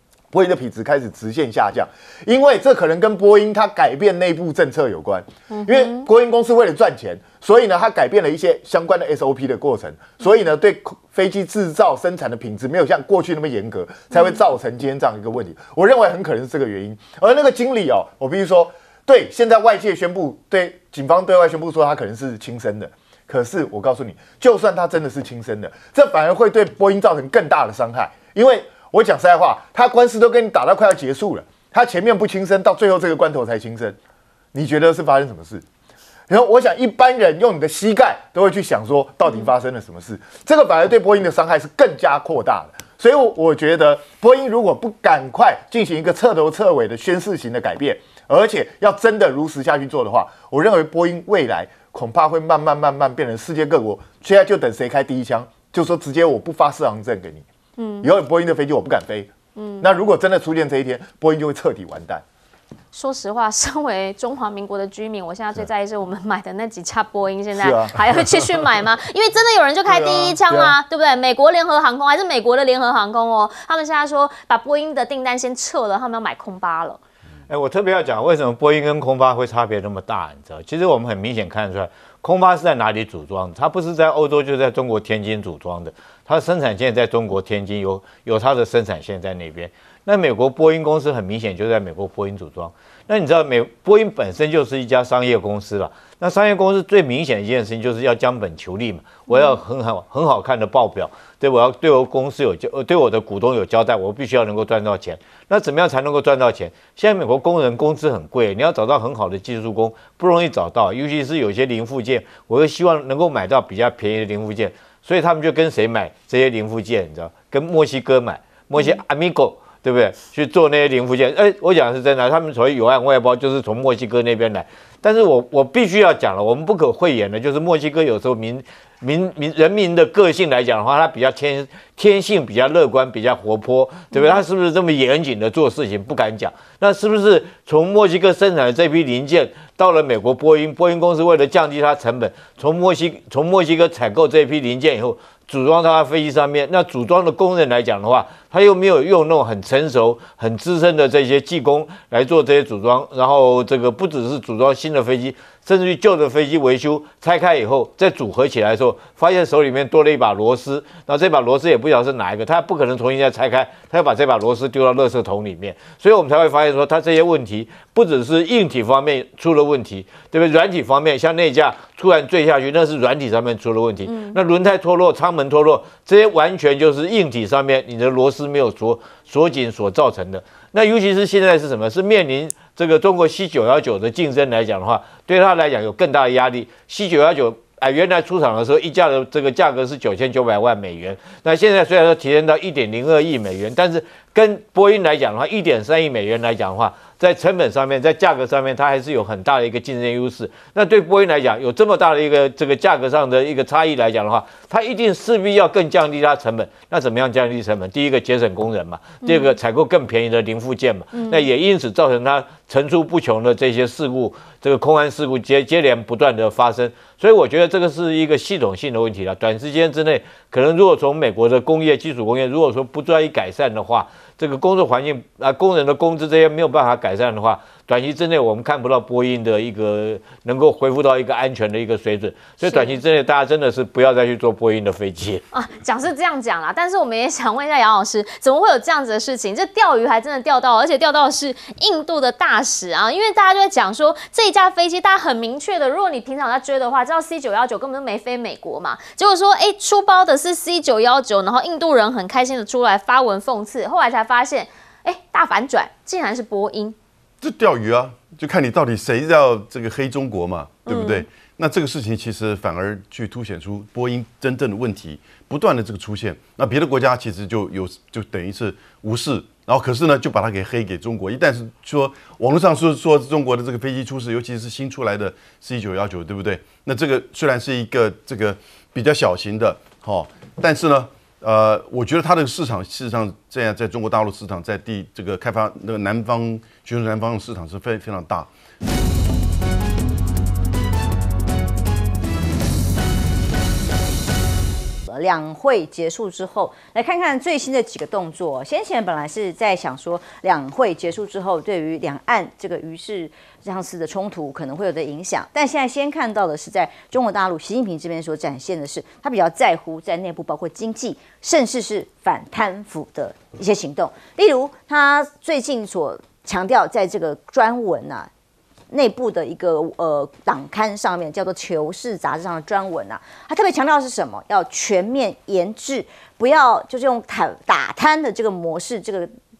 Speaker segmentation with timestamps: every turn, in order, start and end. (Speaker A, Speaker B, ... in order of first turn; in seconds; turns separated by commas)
Speaker A: 0.3-34.0, Speaker B: 5.5-6.1, Speaker A: 34.5-35.6, Speaker A: 36.3-57.4, Speaker B: 57.8-58.1, Speaker A: 58.0-62.2, Speaker B: 59.5-59.9, Speaker B: 62.9-77.0, Speaker A: 67.5-68.7, Speaker A: 69.8-70.8, Speaker C: 77.5-235.4, Speaker B: 99.3-99.6, Speaker B: 174.0-174.4, Speaker B: 209.2-209.5, Speaker B: 211.1-211.4, Speaker B: 232.6-233.0, Speaker B: 235.5-256.9, Speaker D: 257.4-288.5, Speaker B: 260.9-261.2, Speaker E: 295.1-318.3, Speaker E: 318.9-329.3